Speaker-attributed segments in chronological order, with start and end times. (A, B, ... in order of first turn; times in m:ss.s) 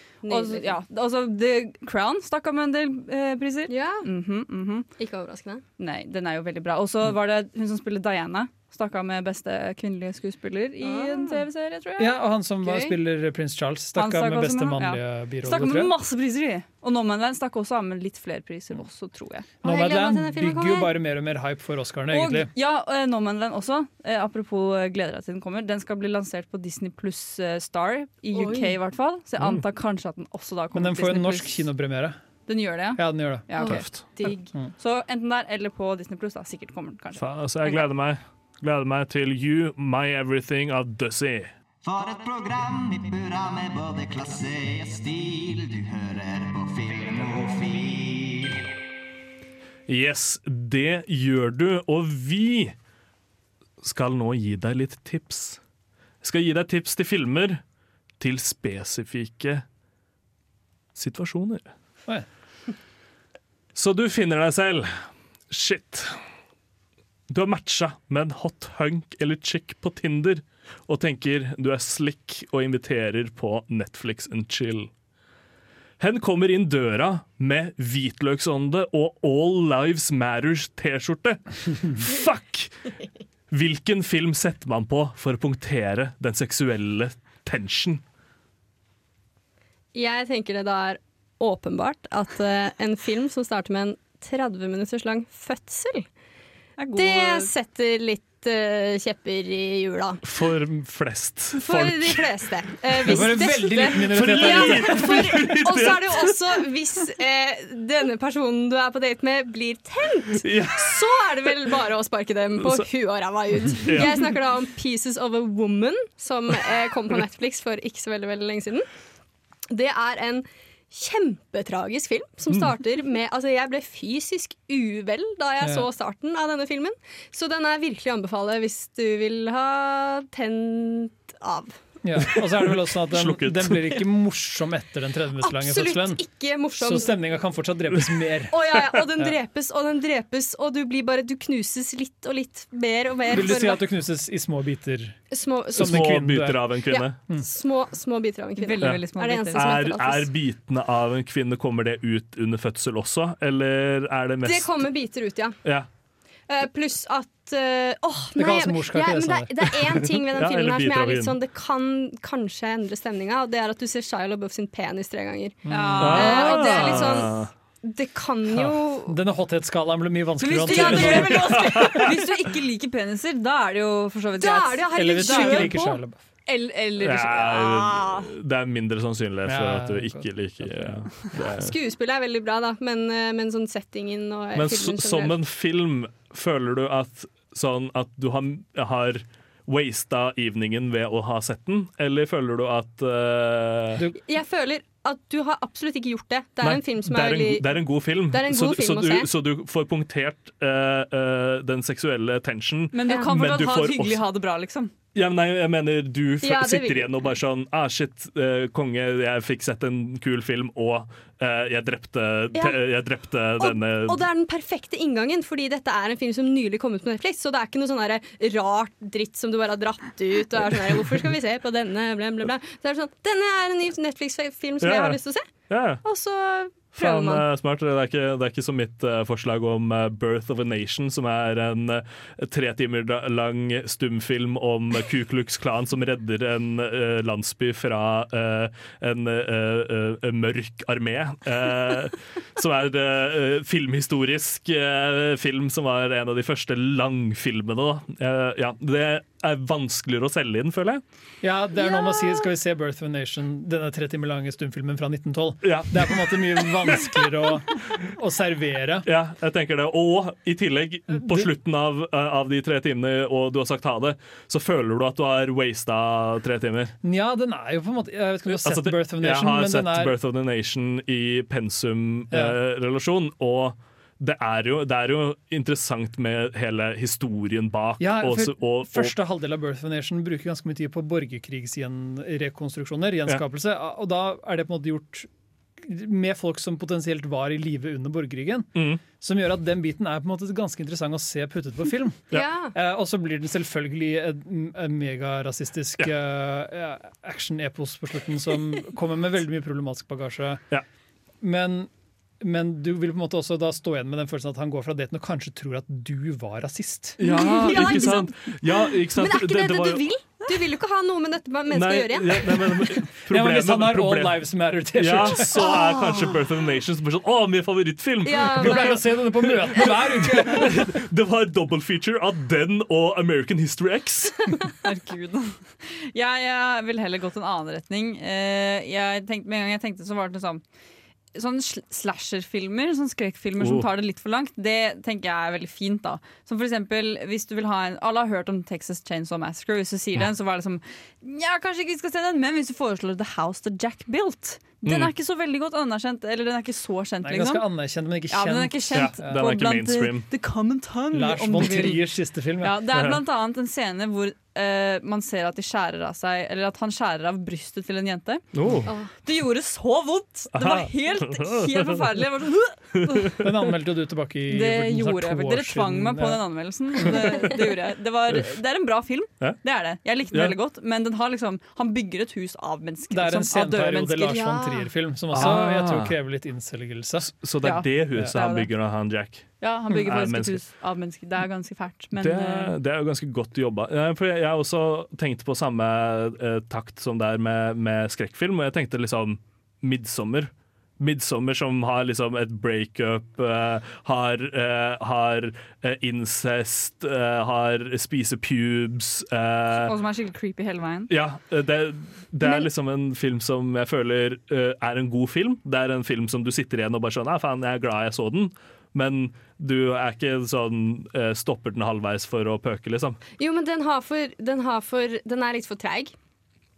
0:00.2-0:00.7 A
0:00.3-0:04.9 B
0:03.7-0:04.1 A
0:05.0-0:05.6 A
0:05.8-0:12.2 B
0:10.8-0:11.4 A
0:12.0-0:15.9 C
0:12.6-0:13.0 A
0:14.0-0:19.5 B
0:19.6-0:22.5 C
0:19.6-0:20.9 A
0:22.1-0:31.7 B
0:28.3-0:28.8 A
0:30.7-0:32.2 C
0:32.5-0:37.8 B
0:33.0-0:33.9 C
0:33.6-0:34.4 A
0:37.2-0:41.5 D
0:41.9-0:48.5 E
0:49.9-0:52.8 D
0:53.8-0:55.6 D
0:56.2-0:57.6 D
0:58.2-0:59.6 D
1:01.0-1:01.7 D
1:03.8-1:06.2 D
1:07.3-1:14.9 D
1:16.0-1:22.9 D
1:23.5-1:28.0 D
1:29.9-1:36.0 A
1:36.8-1:37.5 B
1:37.0-1:40.2 A
1:40.2-1:42.3 D
1:41.6-1:58.9 A
1:43.0-1:45.5 C
1:44.0-1:46.6 D
1:50.4-1:51.7 D
1:52.6-1:52.9 D
1:53.8-1:54.3 D
1:59.7-2:11.8 A
2:05.6-2:05.9 C
2:12.0-2:16.2 C
2:12.3-2:14.0 D
2:15.4-2:17.1 A
2:16.8-2:18.6 C
2:18.5-2:23.9 A
2:23.3-2:25.2 C
2:25.3-2:26.1 A
2:25.7-2:27.5 C
2:25.7-2:27.2 D
2:26.9-2:30.3 A
2:28.6-2:29.8 B
2:28.8-2:34.8 D
2:34.4-2:35.6 A
2:36.5-2:49.2 A
2:38.4-2:39.6 C
2:39.8-2:41.4 D
2:45.7-2:46.3 C
2:45.7-2:47.1 B
2:46.0-2:47.5 D
2:48.5-2:51.6 C
2:50.4-2:55.8 B
2:50.6-2:52.2 A
2:51.0-2:52.0 D
2:54.4-2:58.1 A
2:54.9-2:56.2 C
2:57.0-3:01.8 D
2:59.5-3:01.3 C
3:01.4-3:05.4 A
3:04.5-3:14.0 D
3:14.2-3:19.3 A
3:16.6-3:24.2 D
3:22.9-3:24.9 B
3:25.2-3:34.2 D
3:26.4-3:27.1 A
3:32.6-3:32.8 A
3:33.6-3:47.4 A
3:44.8-3:46.0 D
3:46.9-4:11.0 D
4:11.4-4:19.1 C
4:11.8-4:12.4 A
4:15.6-4:17.3 D
4:19.0-4:26.9 D
4:21.1-4:21.5 C
4:27.0-4:30.2 C
4:28.6-4:39.2 D
4:32.3-4:32.6 C
4:38.0-5:00.6 C
4:48.8-4:49.0 D
4:52.3-4:52.7 A
5:01.4-5:08.1 C
5:07.2-5:10.0 D
5:07.2-5:12.9 A
5:11.7-5:24.5 D
5:13.2-5:15.7 C
5:15.6-5:16.3 A
5:18.2-5:19.0 A
5:18.5-5:21.0 C
5:24.8-5:30.6 B
5:31.4-5:47.7 B
5:33.6-5:33.8 D
5:44.8-5:45.1 D
5:47.2-5:49.5 C
5:48.3-5:52.0 B
5:48.9-5:50.3 D
5:51.1-5:52.8 C
5:52.6-5:58.5 B
5:52.9-5:53.2 D
5:58.5-5:58.9 D
5:58.9-5:59.1 A
5:59.2-6:03.4 B
6:00.6-6:02.0 D
6:03.4-6:06.4 C
6:04.5-6:14.5 B
6:13.1-6:17.3 C
6:14.5-6:14.9 A
6:15.3-6:16.1 D
6:17.2-6:20.6 D
6:17.6-6:18.7 B
6:19.6-6:22.7 B
6:22.2-6:39.9 D
6:39.7-6:41.1 B
6:41.1-6:53.2 D
6:53.4-6:56.1 A